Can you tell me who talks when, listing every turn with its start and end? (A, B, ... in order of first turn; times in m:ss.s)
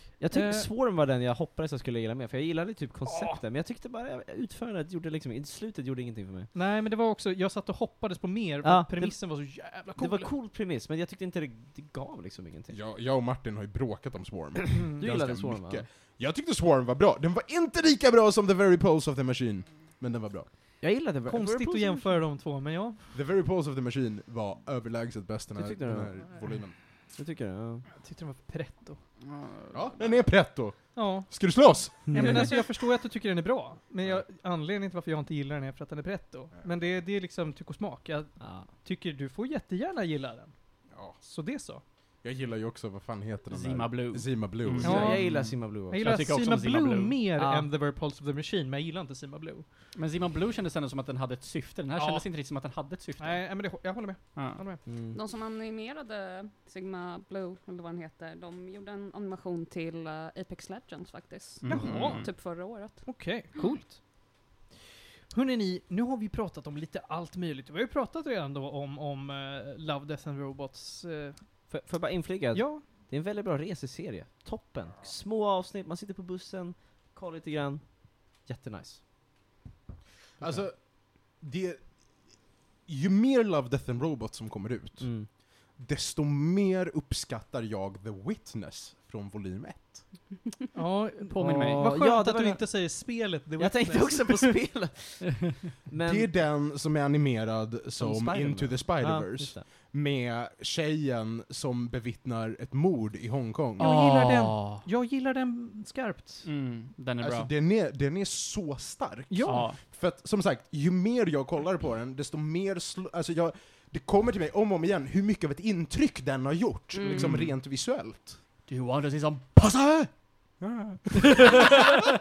0:00.2-0:06.5 A
0:00.3-0:00.7 B
0:03.1-0:03.4 B
0:06.5-0:10.3 B
0:08.6-0:12.8 A
0:12.7-0:20.5 C
0:14.7-0:15.1 B
0:14.9-0:15.9 A
0:20.8-0:22.2 A
0:21.3-0:23.0 B
0:23.1-0:26.8 C
0:25.6-0:26.3 A
0:27.1-0:27.9 A
0:28.0-0:29.0 B
0:29.2-0:30.0 D
0:29.7-0:32.6 C
0:31.0-0:40.6 B
0:32.1-0:32.4 A
0:38.4-0:38.7 A
0:40.9-0:41.2 C
0:41.1-0:41.8 B
0:42.2-0:45.0 C
0:43.5-0:47.3 D
0:44.8-0:46.2 A
0:44.8-0:49.6 B
0:47.4-0:47.7 A
0:50.0-0:53.5 D
0:52.0-0:52.3 B
0:53.2-0:54.8 B
0:54.4-0:54.6 D
0:54.9-0:55.2 A
0:55.1-1:03.7 E
1:01.6-1:02.3 D
1:01.7-1:04.0 B
1:05.3-1:11.4 B
1:11.7-1:19.0 A
1:12.5-1:12.8 B
1:20.4-1:30.1 C
1:25.0-1:25.3 A
1:30.7-1:34.7 B
1:31.3-1:32.0 D
1:31.7-1:32.9 A
1:33.6-1:36.3 A
1:36.0-1:43.9 C
1:38.0-1:39.7 A
1:43.8-1:46.5 B
1:43.8-1:44.8 D
1:46.4-1:47.5 D
1:47.2-1:58.4 C
1:49.3-1:49.7 B
1:49.5-1:49.8 D
1:56.9-1:57.3 E
1:57.0-1:57.6 D
1:58.7-2:00.1 D
2:00.6-2:01.4 C